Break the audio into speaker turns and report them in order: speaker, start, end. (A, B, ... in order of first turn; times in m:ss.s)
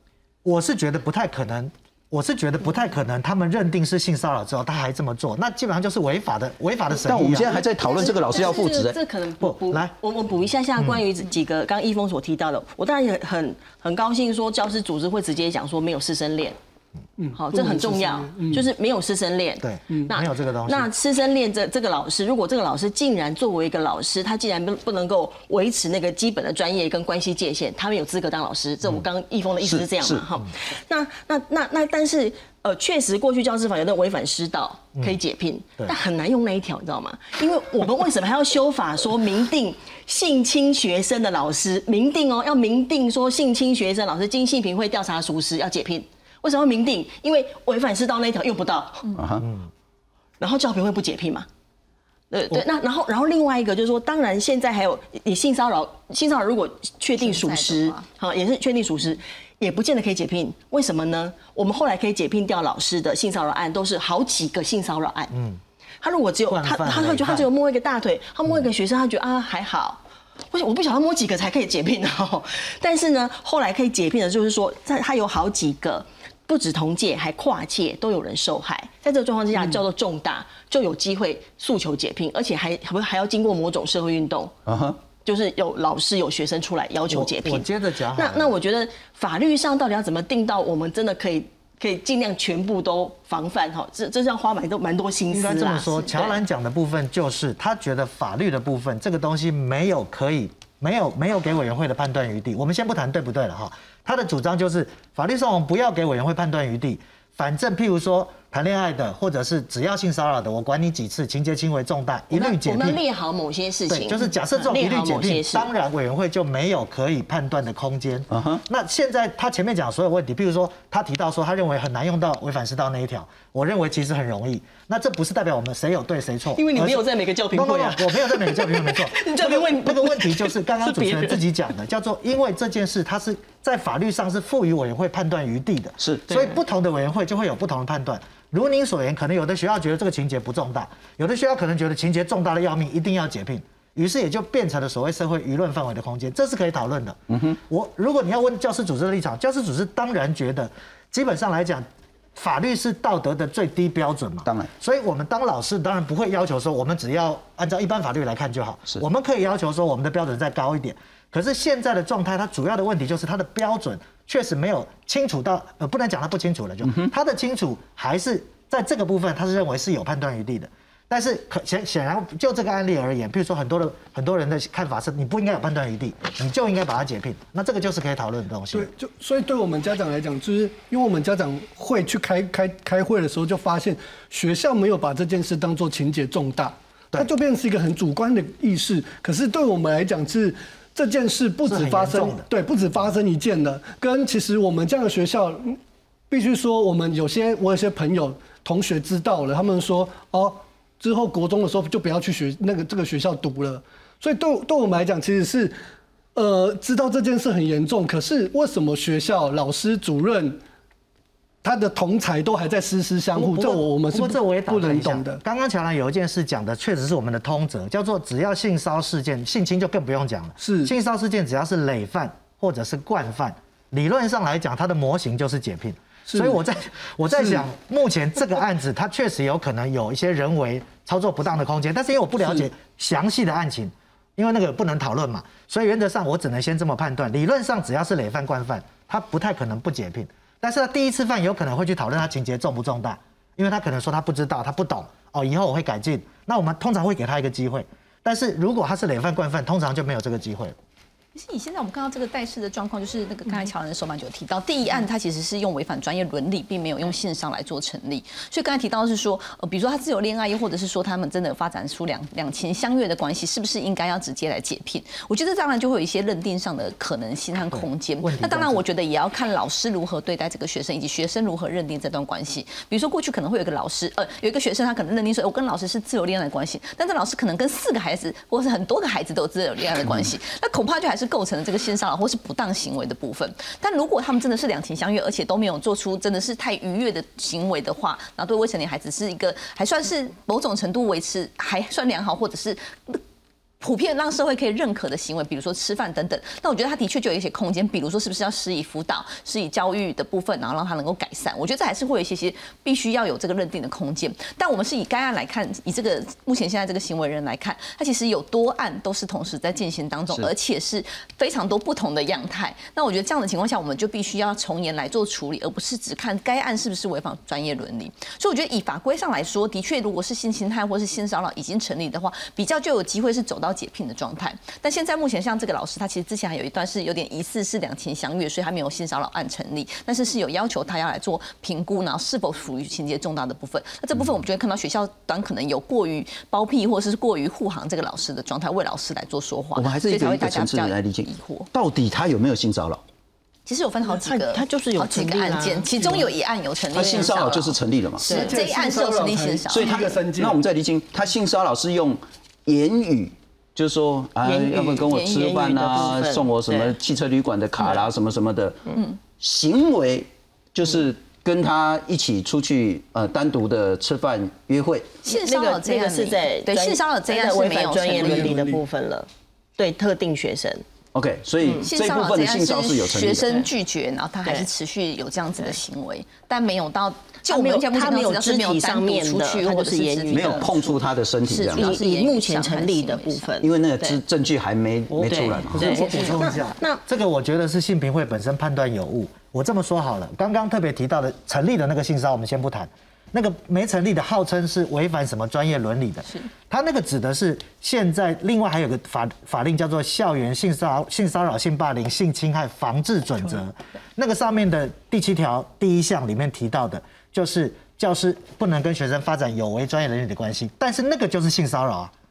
0:00.4-0:07.6 A
0:06.9-0:09.0 B
0:07.5-0:16.6 C
0:09.4-0:09.9 A
0:17.2-0:18.7 D
0:17.4-0:49.1 C
0:19.6-0:20.9 A
0:29.6-0:30.2 B
0:49.2-0:49.5 B
0:49.4-0:49.7 A
0:50.4-0:51.5 C
0:52.3-1:05.3 C
0:57.2-0:58.0 E
1:05.3-1:05.6 A
1:06.0-1:10.0 C
1:06.5-1:07.5 A
1:10.5-1:24.6 C
1:24.7-1:25.0 B
1:25.2-1:36.4 C
1:27.1-1:28.6 A
1:35.3-1:53.0 A
1:52.3-1:55.7 C
1:53.9-2:58.9 A
1:58.3-1:58.6 B
2:06.6-2:11.4 C
2:16.0-2:16.5 B
2:27.3-2:27.6 B
2:58.7-3:15.8 D
3:11.7-3:12.5 A
3:16.3-3:25.8 D
3:26.4-3:30.6 D
3:31.6-3:35.4 D
3:33.4-4:10.8 A
3:40.6-3:40.9 D
3:46.3-3:46.6 D
3:47.4-3:47.6 D
4:11.4-4:53.2 E
4:27.7-4:28.8 A
4:53.8-5:41.7 E
5:39.8-5:43.0 B
5:43.7-5:50.0 E
5:44.2-5:46.3 C
5:46.9-5:48.3 B
5:47.0-5:47.4 C
5:48.2-5:48.5 C
5:48.3-5:50.6 D
5:49.7-6:05.2 B
5:54.4-5:57.0 C
6:05.2-6:08.6 E
6:05.2-6:10.8 C
6:08.2-6:08.8 D
6:11.1-6:13.5 B
6:11.8-6:23.5 E
6:17.5-6:20.7 C
6:20.3-6:22.0 B
6:21.7-6:24.2 C
6:23.6-6:25.9 B
6:25.1-6:52.1 A
6:25.3-6:27.0 C
6:26.0-6:26.4 E